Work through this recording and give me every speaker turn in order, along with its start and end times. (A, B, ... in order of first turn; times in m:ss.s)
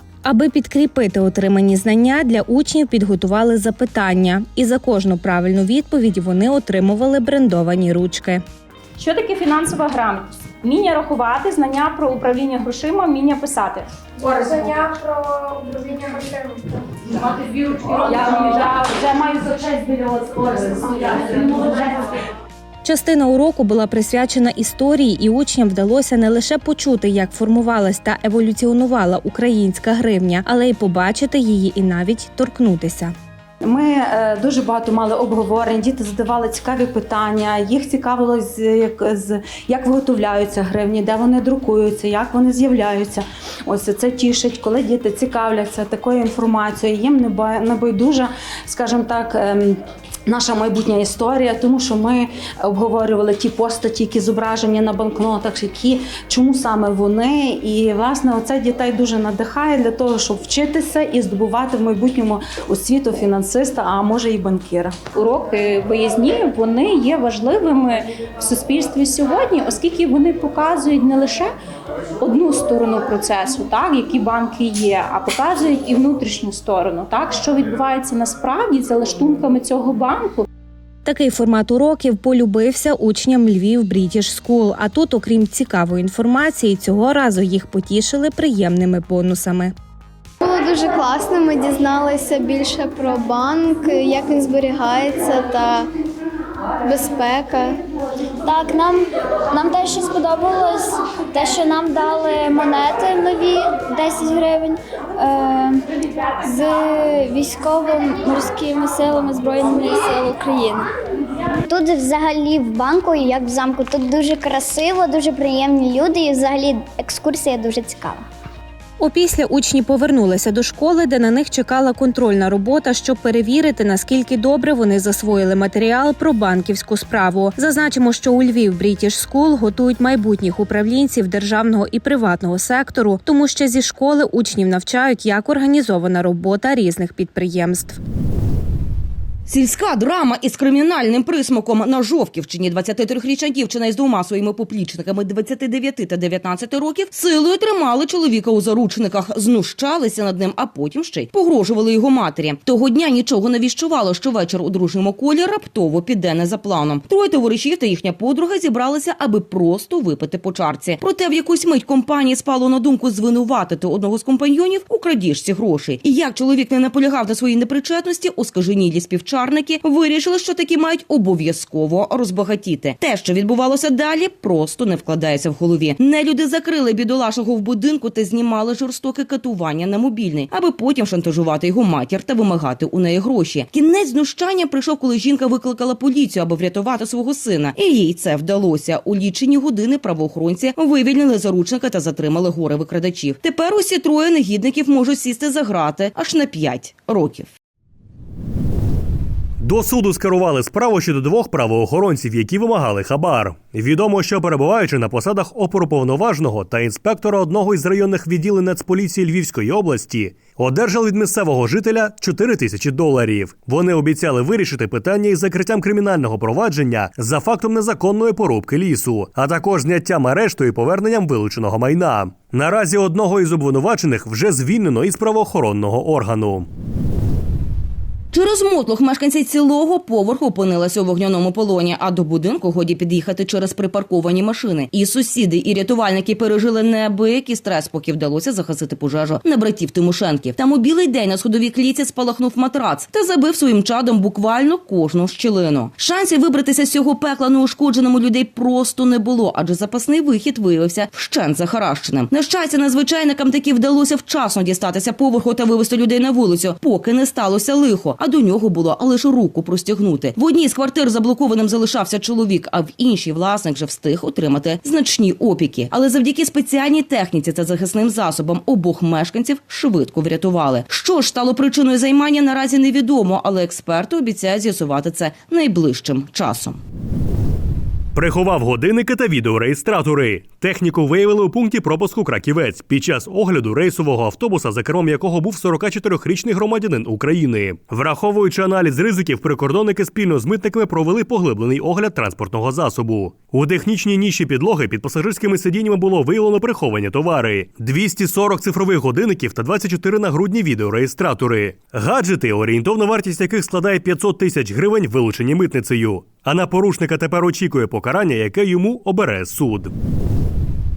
0:00.2-0:08.4 A
0:09.0-0:13.9 B
0:17.1-0:21.8 C
0:22.8-0:33.1 A
0:33.6-1:05.0 C
1:05.1-1:11.5 B
1:12.2-1:20.4 B
1:21.0-1:29.7 A
1:30.4-1:35.8 D
1:30.5-1:35.8 E
1:36.8-1:37.6 E
1:36.9-1:37.7 D
1:38.4-1:45.8 E
1:46.4-1:50.9 E
1:51.7-1:58.2 E
1:59.0-2:18.0 A
2:19.5-3:17.5 F
3:19.6-3:46.7 G
3:48.3-4:36.8 F
4:38.1-5:09.9 G